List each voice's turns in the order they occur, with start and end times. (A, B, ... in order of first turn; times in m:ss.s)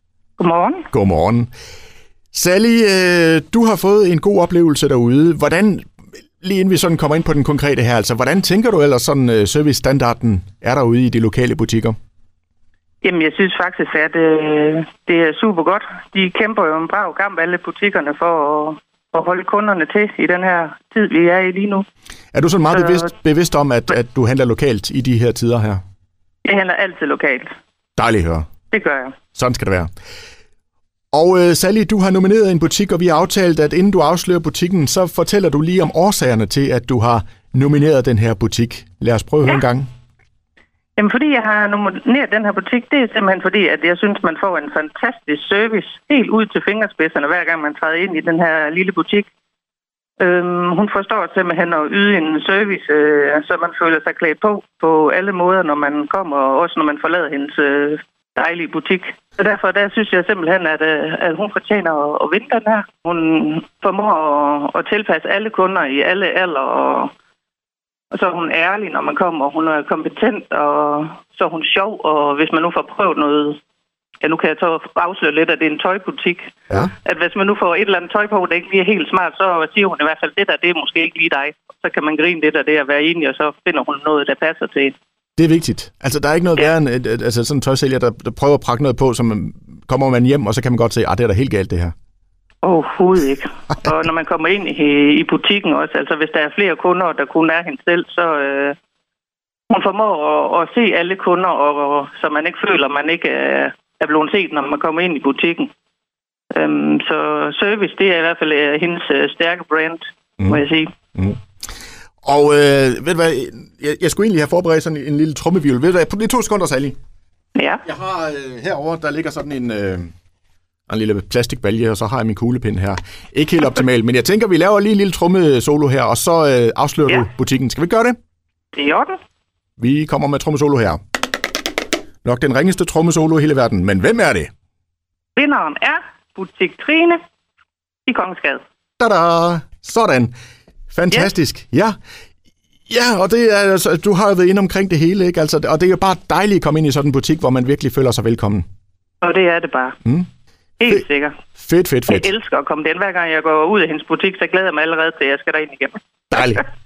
0:00.4-0:00.9 A
0:00.9-0:01.5 B
0:02.3-0:05.9 B
0:06.4-0:11.9 B
0:13.0-0:21.8 A
0:22.3-0:25.8 B
0:26.4-0:27.5 A
0:28.0-0:28.5 B
0:28.7-0:29.1 A
0:29.3-0:29.9 B
0:31.1-0:39.9 B
0:41.0-0:49.3 A
0:50.2-1:07.1 A
1:08.1-1:13.6 A
1:14.2-1:24.9 A
1:25.4-1:31.9 B
1:32.6-1:38.8 A
1:39.7-1:45.7 A
1:46.5-1:50.9 A
1:52.2-1:57.0 B
1:57.6-1:57.8 A
1:57.8-2:00.1 B
2:00.9-2:08.2 B
2:08.7-2:09.2 A
2:09.8-2:11.0 B
2:12.2-2:14.5 B
2:15.4-2:17.2 A
2:18.0-2:18.6 A
2:19.0-2:20.3 B
2:20.9-2:22.0 B
2:22.9-2:28.6 B
2:29.2-2:30.0 A
2:30.8-2:31.4 A
2:31.6-2:32.3 B
2:32.1-2:36.0 A
2:36.3-2:36.6 B